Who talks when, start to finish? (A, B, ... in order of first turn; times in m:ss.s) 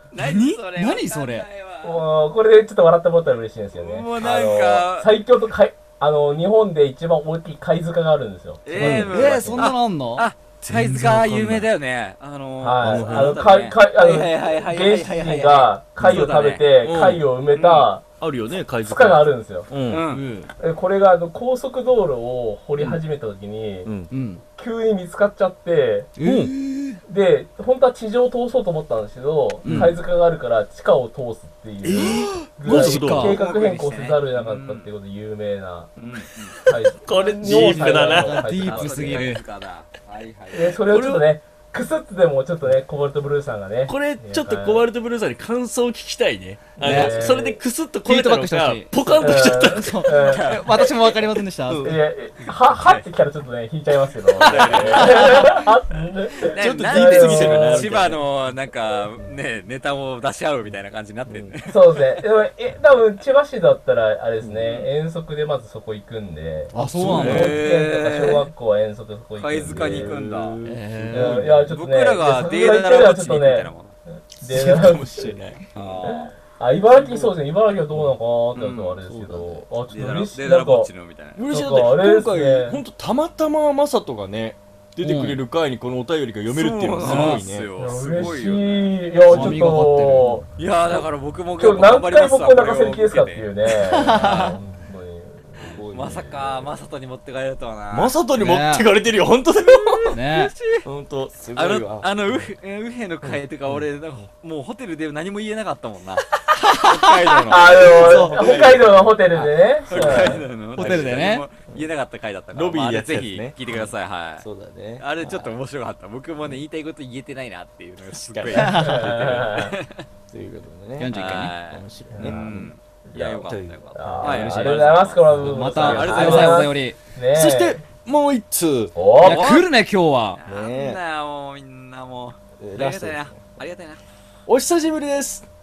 0:00.1-0:02.0 A
0:00.2-0:00.6 B
0:00.8-0:01.5 C
0:01.8-0:09.1 D
0:03.7-0:05.1 A
0:08.6-0:16.6 A
0:08.7-0:09.7 B
0:08.8-0:10.2 C
0:10.6-0:11.7 B
0:12.6-0:18.0 D
0:12.8-0:13.4 B
0:16.0-0:16.3 B
0:16.8-0:17.2 B
0:17.5-0:17.9 A
0:18.2-0:20.2 B
0:18.8-0:19.7 D
0:19.9-0:20.2 A
0:20.1-0:20.5 C
0:20.6-0:23.9 D
0:23.8-0:24.1 B
0:24.1-0:24.4 C
0:24.6-0:26.1 D
0:26.2-0:27.0 C
0:26.2-0:26.5 B
0:27.0-0:35.9 D
0:29.6-0:30.0 C
0:29.6-0:30.0 B
0:31.8-0:33.3 B
0:31.9-0:33.4 C
0:33.2-0:34.9 A
0:36.0-0:36.6 A
0:36.6-0:39.3 D
0:36.7-0:38.4 B
0:37.4-0:39.4 C
0:38.5-0:40.8 A
0:40.5-0:44.8 D
0:40.9-0:41.3 B
0:43.9-0:50.1 B
0:46.8-0:47.6 D
0:46.8-0:47.4 C
0:48.0-0:51.9 C
0:49.2-0:50.8 D
0:50.3-0:51.2 A
0:51.7-0:52.0 B
0:51.8-0:57.9 D
0:52.7-0:53.0 A
0:54.3-0:55.6 B
0:54.4-1:02.0 A
0:56.5-0:58.2 B
1:01.3-1:01.6 B
1:01.7-1:10.2 D
1:04.6-1:04.9 A
1:06.7-1:07.6 C
1:06.7-1:07.6 B
1:07.1-1:08.5 A
1:09.4-1:10.6 A
1:09.7-1:11.8 B
1:10.6-1:11.5 C
1:11.1-1:15.4 D
1:11.7-1:13.9 A
1:14.4-1:15.9 B
1:15.7-1:16.3 A
1:16.0-1:20.9 D
1:17.0-1:17.3 A
1:17.9-1:19.6 B
1:18.5-1:19.0 A
1:19.9-1:21.4 A
1:21.3-1:27.7 B
1:21.5-1:22.8 D
1:25.0-1:25.4 C
1:26.5-1:29.5 A
1:27.0-1:27.4 C
1:27.8-1:30.4 D
1:29.3-1:30.4 C
1:30.6-1:33.5 A
1:31.6-1:35.8 D
1:33.9-1:34.6 C
1:34.1-1:34.5 A
1:35.6-1:36.7 B
1:35.9-1:38.1 A
1:37.9-1:40.2 B
1:38.4-1:38.9 C
1:39.8-1:40.8 A
1:40.1-1:40.5 C
1:40.8-1:42.5 B
1:41.5-1:48.7 A
1:43.2-1:43.8 B
1:46.6-1:47.0 C
1:47.4-1:50.4 D
1:47.7-1:48.6 C
1:47.7-1:49.1 B
1:49.9-1:54.4 A
1:49.9-1:51.9 B
1:50.7-1:51.4 C
1:52.5-1:55.5 B
1:55.0-2:00.0 A
1:58.0-1:59.4 B
1:58.5-1:59.2 C
1:58.8-1:59.8 D
2:00.3-2:02.7 B
2:01.0-2:01.5 C
2:01.1-2:05.2 A
2:02.1-2:02.4 D
2:03.1-2:07.8 D
2:03.4-2:05.5 B
2:05.3-2:07.0 C
2:05.8-2:06.7 A
2:07.3-2:08.9 B
2:08.9-2:09.4 D
2:09.2-2:10.4 C
2:09.2-2:09.7 A
2:10.3-2:14.0 A
2:10.4-2:11.0 B
2:12.6-2:13.4 B
2:14.5-2:15.4 B